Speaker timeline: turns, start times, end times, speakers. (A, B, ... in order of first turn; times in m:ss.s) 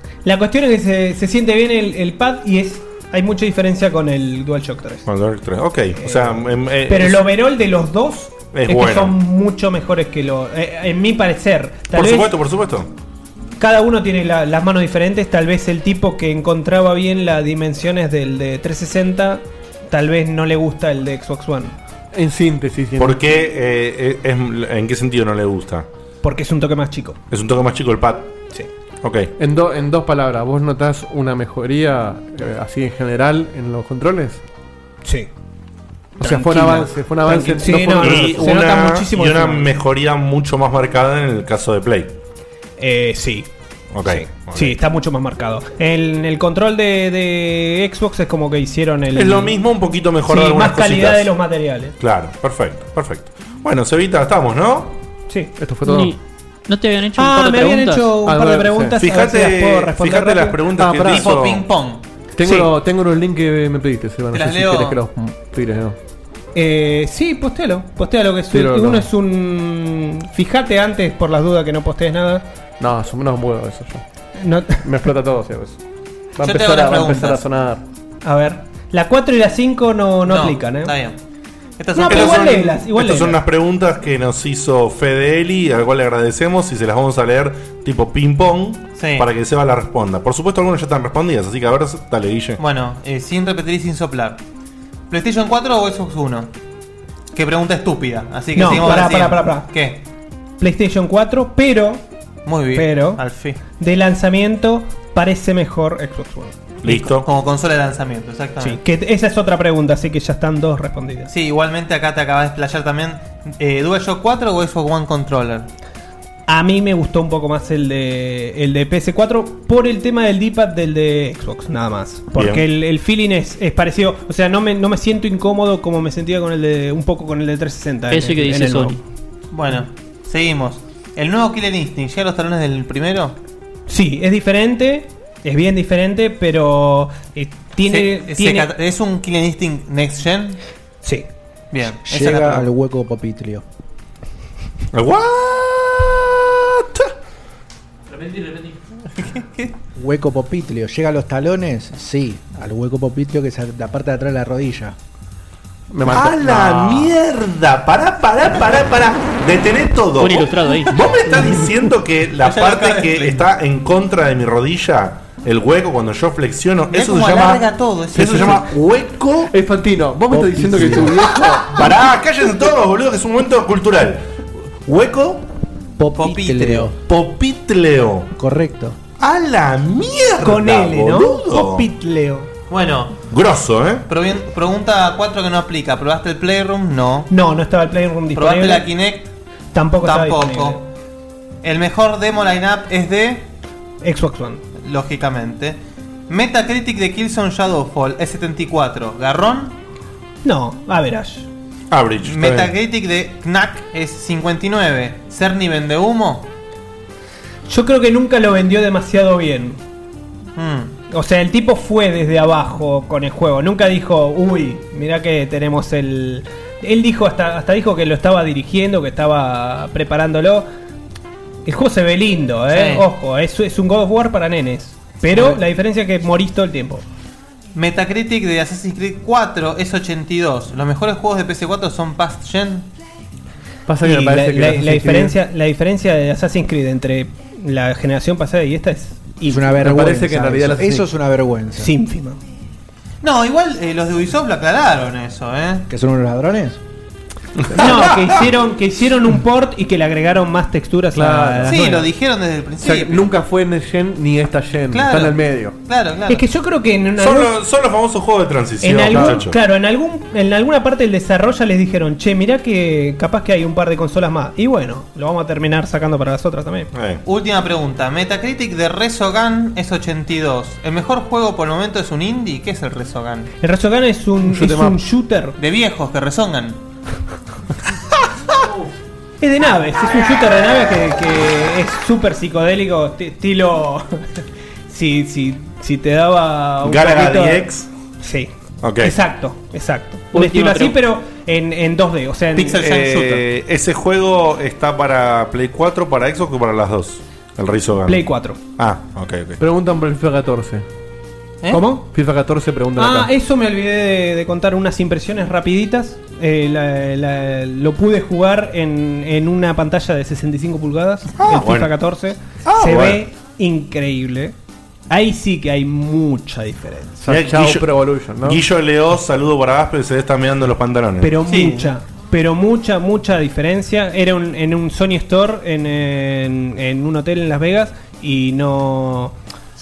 0:00.2-0:05.1 A
0:05.1-0:07.3 B
0:06.0-0:12.4 A
0:08.5-0:09.2 B
0:11.9-0:12.9 B
0:13.6-0:21.8 A
0:22.1-0:23.2 C
0:23.0-0:25.9 B
0:26.2-0:27.2 A
0:27.3-0:28.3 B
0:29.0-0:29.3 B
0:29.4-0:34.4 C
0:35.0-0:35.3 A
0:36.2-0:38.6 C
0:36.2-0:39.7 A
0:37.9-0:42.2 B
0:42.8-0:43.5 A
0:43.9-0:44.8 B
0:44.0-0:49.6 A
0:49.1-0:51.3 B
0:50.2-0:52.0 A
0:52.0-0:54.9 B
0:55.3-0:55.5 A
0:55.6-0:56.1 C
0:55.8-0:58.1 D
0:57.2-1:00.7 A
0:58.2-0:59.0 C
0:59.0-1:01.6 B
1:00.8-1:01.4 C
1:01.0-1:02.0 E
1:02.4-1:06.0 C
1:02.4-1:02.7 A
1:04.3-1:05.0 E
1:06.6-1:12.4 A
1:08.5-1:09.1 C
1:12.8-1:14.0 C
1:14.4-1:14.9 A
1:14.8-1:15.8 C
1:16.4-1:17.8 C
1:16.4-1:17.4 E
1:18.2-1:20.9 A
1:20.2-1:21.2 E
1:21.8-1:22.7 E
1:22.0-1:23.4 A
1:22.1-1:32.6 B
1:29.0-1:29.3 E
1:32.6-1:34.4 E
1:35.1-1:36.5 E
1:37.3-1:40.0 E
1:38.6-1:39.7 A
1:40.6-1:42.0 A
1:42.4-1:43.6 E
1:42.7-1:46.7 A
1:46.8-1:47.3 B
1:46.8-1:48.8 E
1:48.6-1:51.3 A
1:51.3-1:55.7 E
1:56.5-2:09.0 A
2:02.4-2:02.6 B
2:08.1-2:09.0 D
2:09.5-2:13.4 E
2:13.9-2:18.7 A
2:17.8-2:20.6 E
2:21.0-2:21.3 A
2:21.7-2:22.7 E
2:22.0-2:23.6 F
2:24.9-2:27.1 B
2:29.2-2:29.7 E
2:30.0-2:35.0 F
2:35.9-2:37.1 C
2:36.1-2:49.5 B
2:40.2-2:41.3 D
2:42.4-2:43.5 E
2:46.9-2:48.7 E
2:48.2-2:48.6 C
2:49.5-2:51.9 C
2:50.3-2:51.3 F
2:51.6-2:54.3 B
2:54.8-2:55.4 B
2:56.0-2:57.0 F
2:56.2-2:56.9 E
2:57.1-2:58.3 B
2:58.4-2:59.0 F
2:59.2-3:01.9 B
3:00.4-3:02.5 A
3:02.7-3:03.2 E
3:03.3-3:04.0 B
3:04.1-3:07.3 E
3:07.3-3:08.9 A
3:08.4-3:09.3 E
3:09.7-3:10.8 A
3:10.0-3:10.8 E
3:11.6-3:13.5 E
3:14.0-3:14.6 A
3:14.8-3:15.8 E
3:16.3-3:19.8 E
3:20.4-3:21.5 A
3:21.9-3:22.7 B
3:22.2-3:26.5 E
3:27.7-3:29.8 A
3:30.6-3:30.9 E
3:31.1-3:40.7 A
3:41.6-3:47.0 A
3:42.7-3:43.1 E
3:45.2-3:45.6 E
3:47.7-3:52.9 E
3:53.9-3:55.4 C
3:54.0-3:59.8 A
3:59.4-4:01.9 F
3:59.8-4:01.1 C
4:01.8-4:02.4 A
4:03.2-4:05.9 E
4:05.9-4:06.8 F
4:07.7-4:08.4 B
4:07.8-4:12.1 A
4:11.1-4:11.8 C
4:11.6-4:13.3 E
4:12.8-4:15.8 C
4:14.9-4:16.4 E
4:16.3-4:17.6 A
4:17.2-4:19.6 B
4:18.8-4:26.9 A
4:19.1-4:19.4 C
4:26.9-4:27.2 B
4:27.2-4:33.5 E
4:33.6-4:35.6 A
4:34.4-4:35.0 C
4:35.6-4:36.8 E
4:39.4-4:47.7 A
4:46.8-4:47.9 B
4:48.2-4:52.9 A
4:48.8-4:49.2 B
4:50.3-4:51.0 D
4:52.5-4:53.4 E
4:52.8-4:59.6 B
4:58.1-4:58.6 A
4:59.6-5:00.8 C
5:01.7-5:02.1 A
5:02.1-5:03.3 C
5:03.0-5:14.6 A
5:11.4-5:11.9 B
5:12.6-5:13.2 B
5:15.1-5:17.3 A
5:17.2-5:18.6 C
5:17.3-5:17.9 B
5:18.4-5:21.4 B
5:21.2-5:29.4 A
5:21.5-5:21.9 E